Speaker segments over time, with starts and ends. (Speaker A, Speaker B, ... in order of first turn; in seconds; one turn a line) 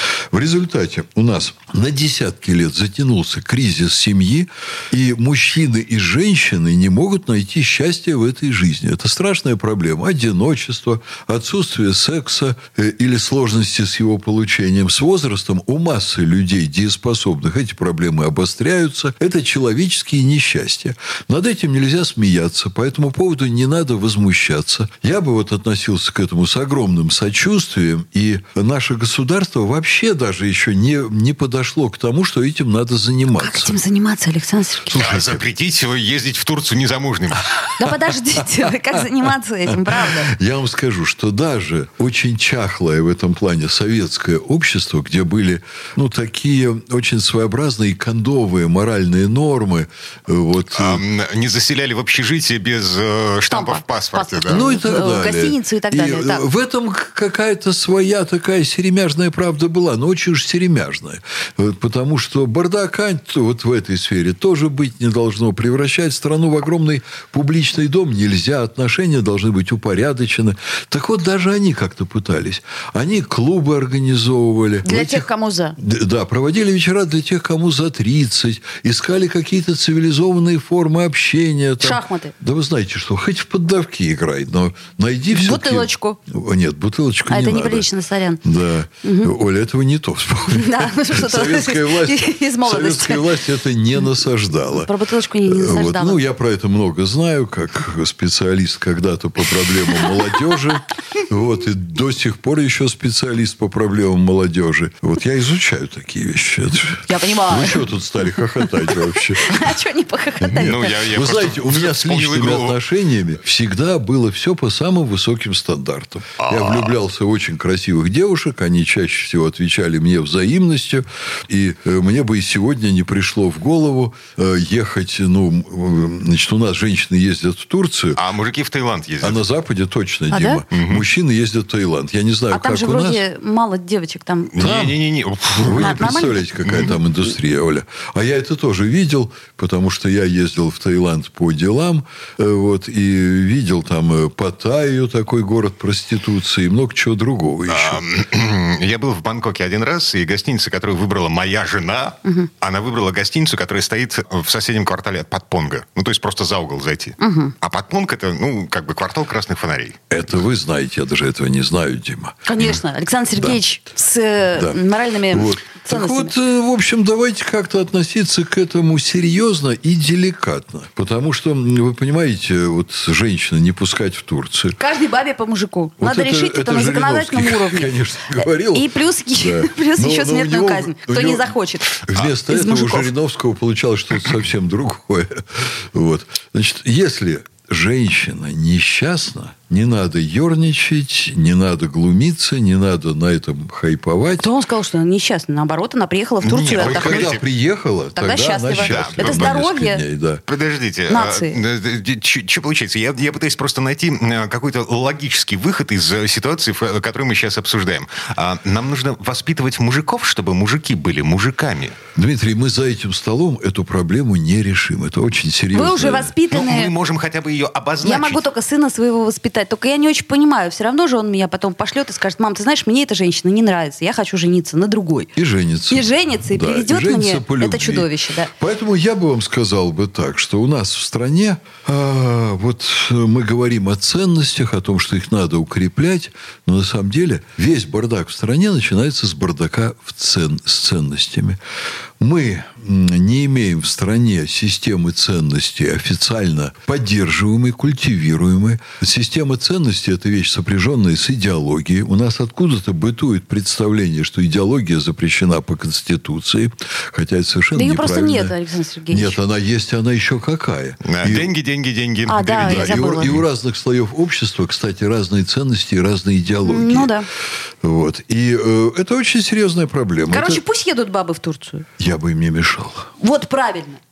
Speaker A: 0.3-33.8
Speaker B: 33.4-35.0
Speaker A: 34.8-35.4
Speaker C: 34.9-37.7
Speaker B: 37.8-40.3
Speaker A: 37.8-51.0
Speaker C: 50.7-54.7
Speaker B: 53.5-56.5
Speaker A: 54.5-75.3
Speaker B: 74.8-75.8
Speaker A: 75.8-87.9
Speaker B: 81.8-82.3
Speaker B: 85.3-86.2
Speaker B: 87.3-88.4
Speaker A: 88.4-94.9
Speaker B: 89.0-89.3
Speaker B: 90.5-93.4
Speaker B: 94.7-96.2
Speaker A: 95.5-109.8
Speaker B: 107.1-111.1
Speaker A: 110.4-128.2
Speaker C: 110.5-112.8
Speaker C: 116.4-116.9
Speaker C: 128.2-129.4
Speaker A: 129.2-133.2
Speaker B: 130.3-130.6
Speaker C: 130.7-131.1
Speaker B: 132.5-134.6
Speaker C: 134.5-137.0
Speaker A: 134.6-148.0
Speaker B: 135.8-136.4
Speaker C: 147.7-159.9
Speaker B: 157.2-157.5
Speaker A: 160.1-162.8
Speaker B: 162.4-166.3
Speaker A: 163.3-163.6
Speaker A: 164.5-174.8
Speaker B: 174.8-183.1
Speaker A: 176.0-194.5
Speaker B: 194.3-197.3
Speaker C: 196.4-197.4
Speaker A: 196.6-200.4
Speaker B: 198.1-200.0
Speaker C: 198.8-199.5
Speaker C: 200.5-212.0
Speaker B: 201.1-201.6
Speaker A: 212.1-216.3
Speaker B: 215.7-216.9
Speaker C: 216.5-218.5
Speaker B: 218.0-225.3
Speaker A: 225.3-241.6
Speaker B: 225.9-228.5
Speaker A: 242.2-258.6
Speaker B: 257.7-259.4
Speaker A: 259.1-261.5
Speaker C: 261.0-263.4
Speaker B: 262.3-263.4
Speaker A: 262.6-267.1
Speaker B: 266.6-267.3
Speaker A: 267.8-270.6
Speaker B: 270.3-271.9
Speaker A: 272.0-273.1
Speaker B: 273.2-274.0